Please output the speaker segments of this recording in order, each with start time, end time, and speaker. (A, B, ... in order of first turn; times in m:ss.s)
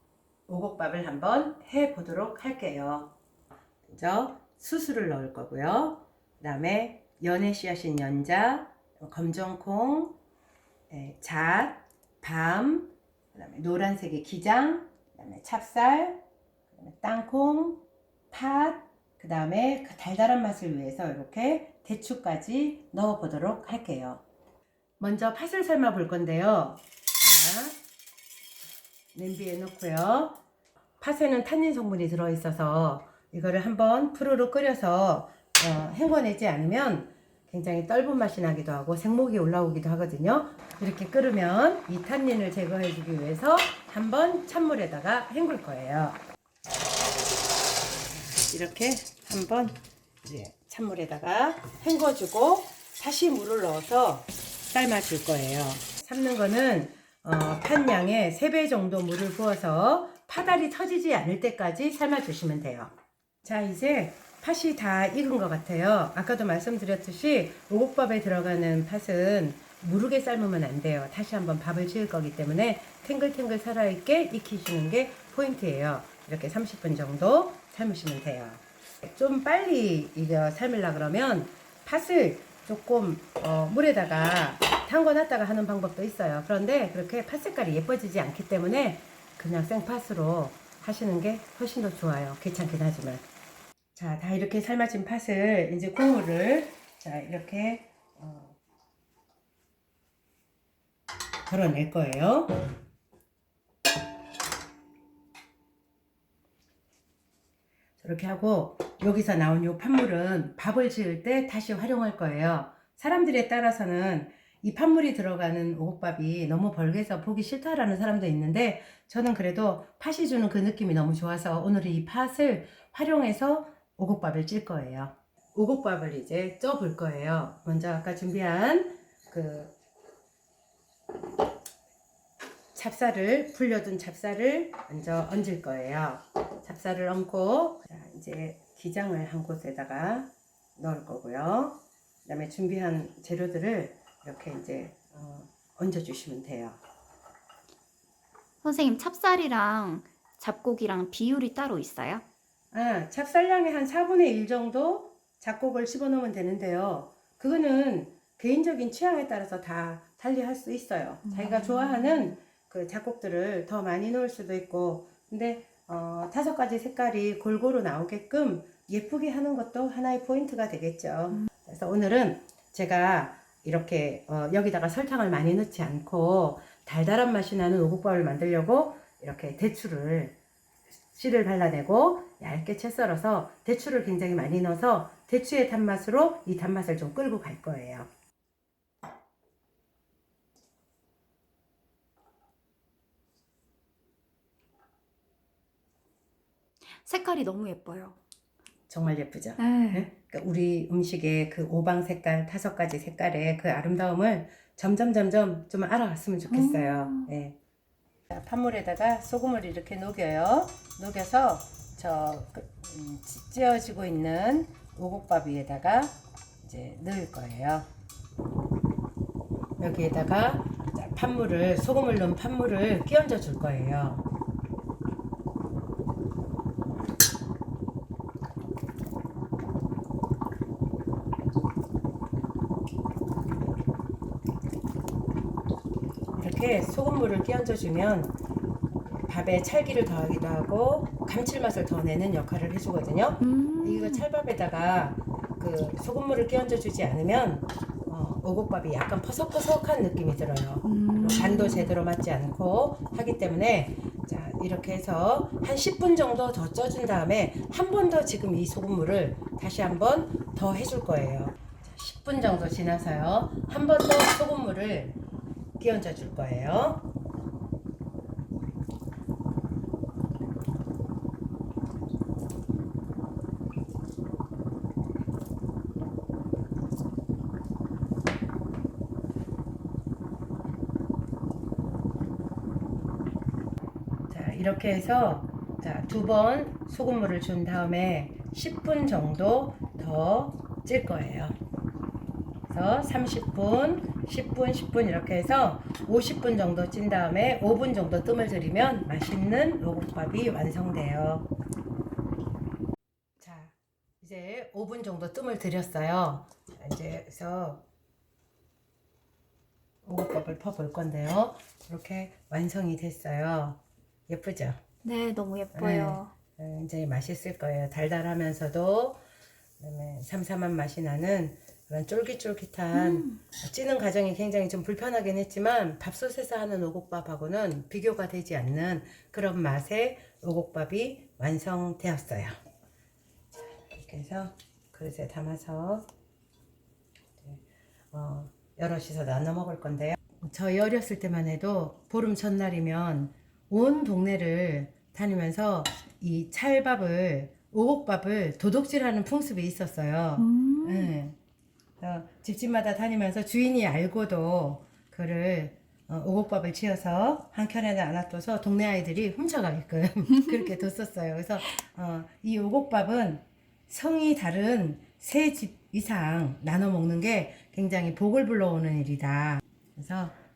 0:00.5-0:03.2 A
0:03.9-0:10.2 A
0:10.9-0:24.2 A
0:25.0-0:27.8 A
0:29.1-0:30.4 A
0:31.0-0:46.2 A
0:48.1-1:02.9 A
1:03.4-1:33.3 A
1:34.0-1:38.6 A
1:41.5-1:42.6 A
1:48.0-2:09.8 A
2:12.7-2:26.8 A
2:28.6-2:32.2 B
2:32.7-3:00.4 A
2:41.3-2:42.2 B
3:01.1-3:08.1 A
3:17.0-3:18.2 B
3:18.9-3:27.6 A
3:19.6-3:20.1 B
3:26.5-3:27.3 B
3:28.3-3:37.9 A
3:39.8-3:44.2 A
3:56.4-3:58.4 A
3:59.2-4:25.2 A
4:03.4-4:04.3 B
4:10.8-4:11.9 B
4:25.8-4:27.1 A
4:44.3-4:51.6 A
4:52.7-5:01.5 A
5:03.4-5:07.8 A
5:10.0-5:14.8 A
5:15.0-5:16.3 B
5:15.7-5:19.2 A
5:19.8-5:32.5 A
5:22.9-5:23.4 B
5:33.9-5:36.1 A
5:37.4-5:51.4 A
5:50.4-5:51.1 B
5:52.0-6:10.3 A